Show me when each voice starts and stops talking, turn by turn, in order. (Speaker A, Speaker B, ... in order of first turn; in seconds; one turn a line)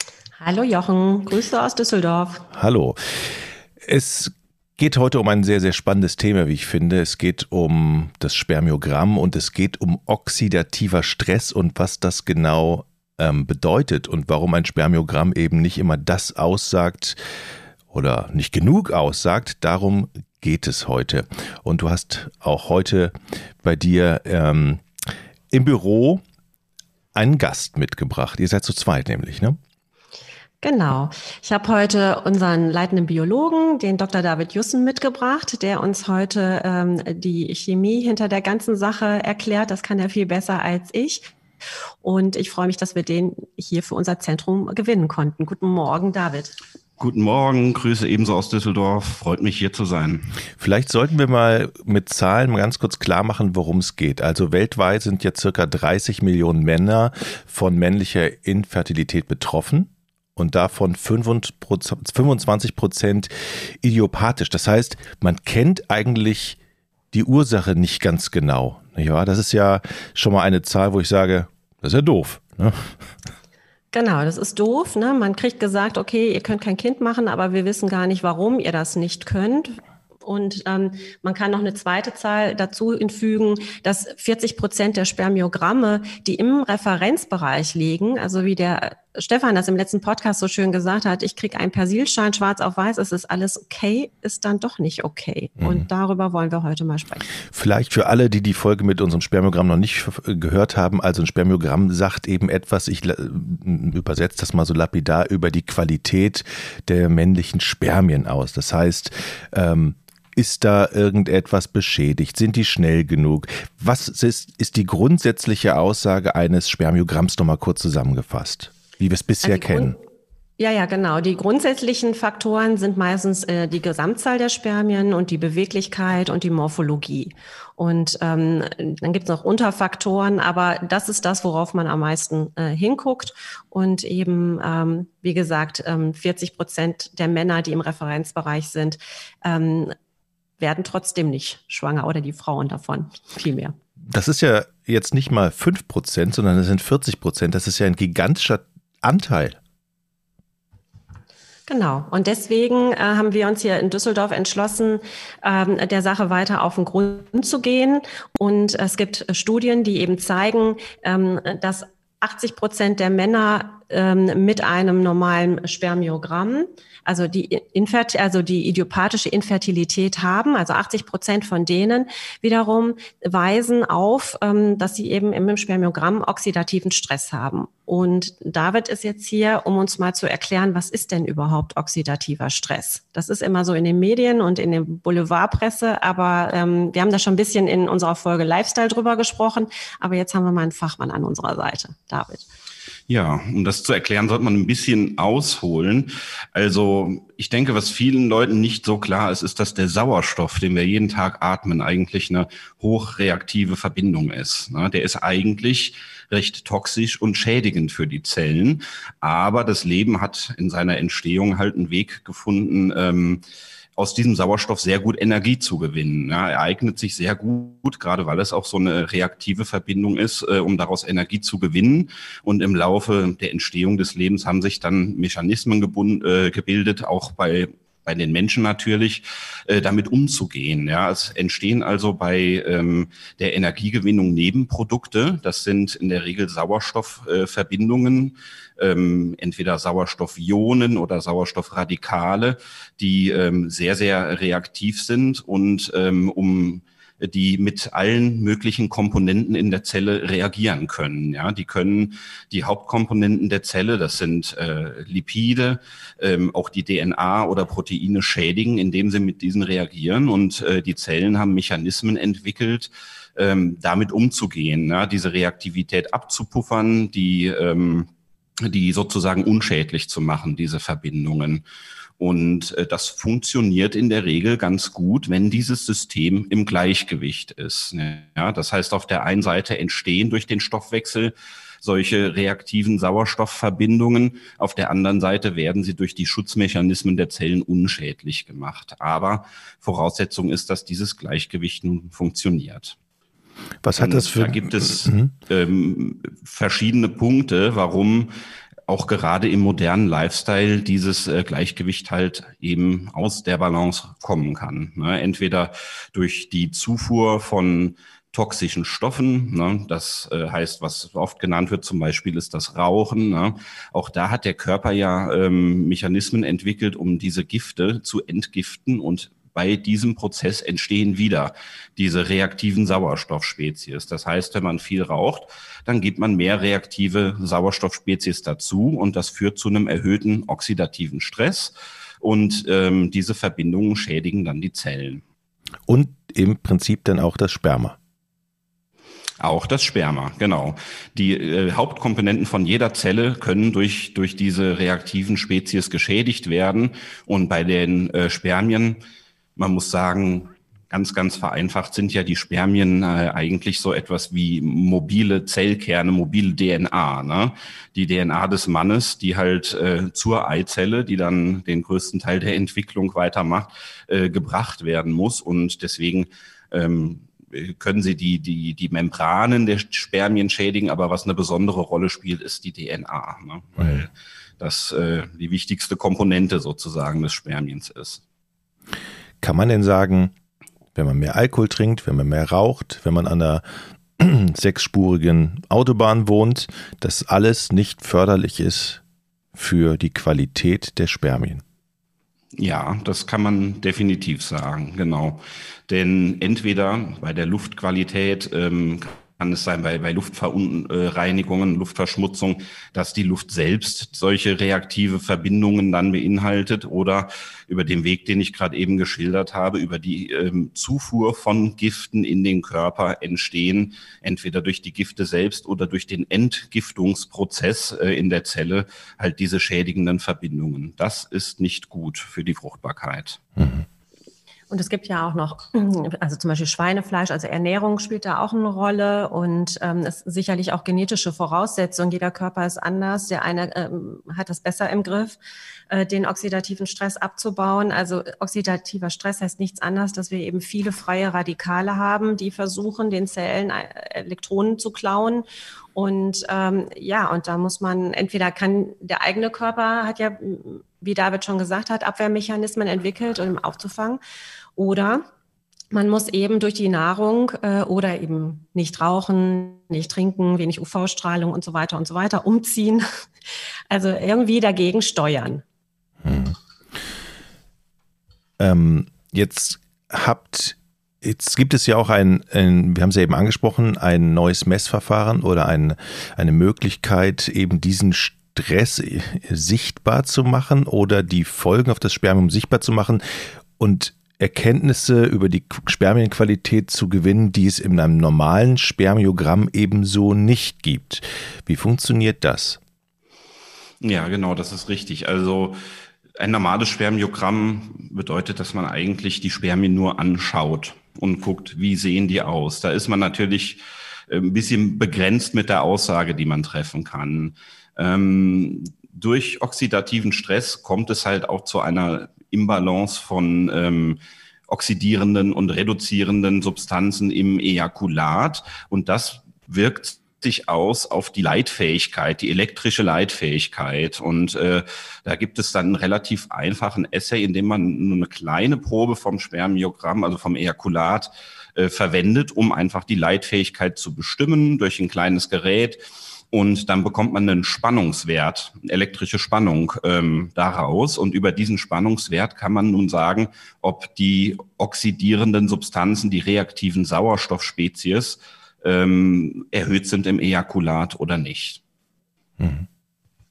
Speaker A: 0.4-2.5
Speaker B: 2.5-17.2
Speaker B: 17.9-26.2
Speaker B: 27.1-29.6
Speaker A: 30.6-41.3
Speaker A: 42.0-46.5
Speaker C: 47.0-50.3
Speaker B: 50.6-66.6
Speaker B: 67.1-73.0
Speaker A: 73.9-97.2
Speaker B: 97.5-120.0
Speaker A: 119.4-120.0
Speaker A: 120.6-139.9
Speaker A: 140.6-143.7
Speaker B: 144.1-149.6
Speaker A: 151.7-192.4
Speaker C: 193.1-213.4
Speaker C: 214.0-268.1
Speaker C: 268.6-271.6
Speaker C: 272.2-292.9
Speaker B: 293.8-295.3
Speaker C: 294.0-298.3
Speaker C: 298.9-335.2
Speaker B: 335.9-338.0
Speaker C: 339.4-349.0
Speaker C: 349.6-378.2
Speaker B: 379.4-380.3
Speaker B: 380.9-383.6
Speaker B: 384.2-389.0
Speaker B: 389.5-391.6
Speaker C: 392.6-423.4
Speaker B: 423.6-423.8
Speaker A: 424.7-435.4
Speaker A: 435.9-454.2
Speaker A: 454.8-455.2
Speaker A: 455.9-463.1
Speaker A: 463.9-465.6
Speaker B: 466.2-466.6
Speaker B: 468.6-492.8
Speaker C: 494.0-495.8
Speaker C: 496.4-536.0
Speaker C: 536.5-551.8
Speaker B: 552.6-552.9